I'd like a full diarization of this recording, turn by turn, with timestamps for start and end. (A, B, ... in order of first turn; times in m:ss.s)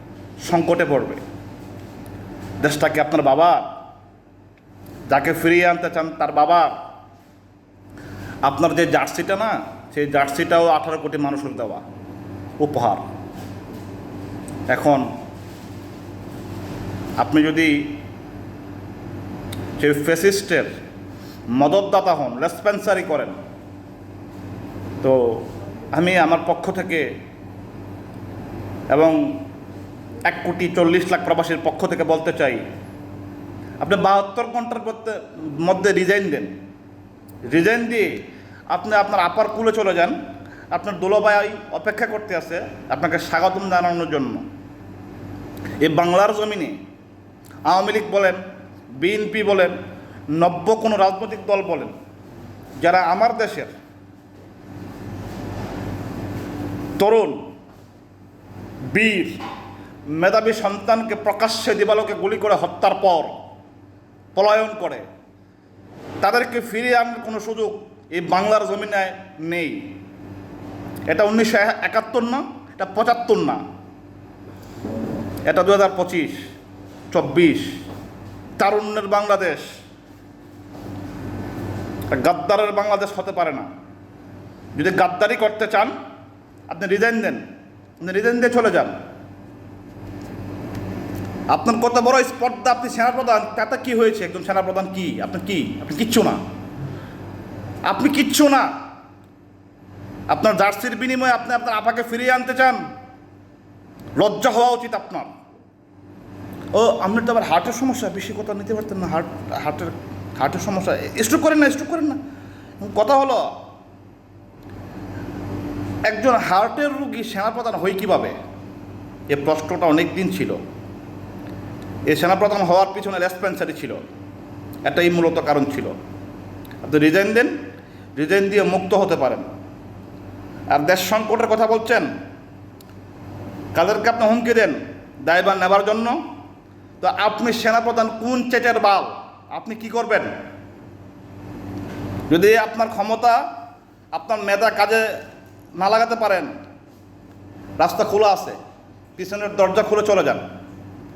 0:00.4-0:01.2 A
0:02.6-0:03.7 A
0:05.1-0:06.8 A
0:08.4-0:11.8 A
0:12.6-0:13.0 A
0:14.7-0:15.1 A
0:17.2-0:18.0 A
0:19.8-0:20.7 A
0:21.5-0:23.4 A
0:25.0-0:27.2 A
0:28.9-0:29.4 A
0:30.2-0:32.6 A
0:33.8-0:36.6 A
0:37.5-0:40.2 A
0:40.7-0:44.4 A
0:45.8-0:46.8 A
0:47.6-0:48.4 A
0:49.0-0:49.8 A
0:50.3-0:51.9 A
0:52.8-0:53.7 A
0:57.0-0:57.5 A
0:58.9-0:59.4 A
1:00.1-1:03.4 A
1:04.3-1:05.1 A
1:06.2-1:09.9 A
1:11.1-1:13.6 A
1:15.4-1:16.4 A
1:17.1-1:17.8 A
1:18.6-1:19.7 A
1:22.1-1:23.7 A
1:24.7-1:25.9 A
1:26.7-1:27.4 A
1:28.0-1:29.0 A
1:31.5-1:36.4 A
1:37.8-1:38.7 A
1:40.3-1:42.8 A
1:44.2-1:45.3 A
1:46.7-1:52.2 A
1:52.8-1:53.6 A
1:56.0-1:58.4 A
1:59.3-2:00.6 A
2:02.1-2:04.0 A
2:04.8-2:05.9 A
2:06.8-2:07.6 A
2:08.2-2:09.5 A
2:10.7-2:12.1 A
2:13.7-2:16.2 A
2:17.0-2:20.3 A
2:22.3-2:23.4 A
2:24.1-2:25.2 A
2:25.7-2:26.5 A
2:27.8-2:28.6 A
2:29.2-2:30.5 A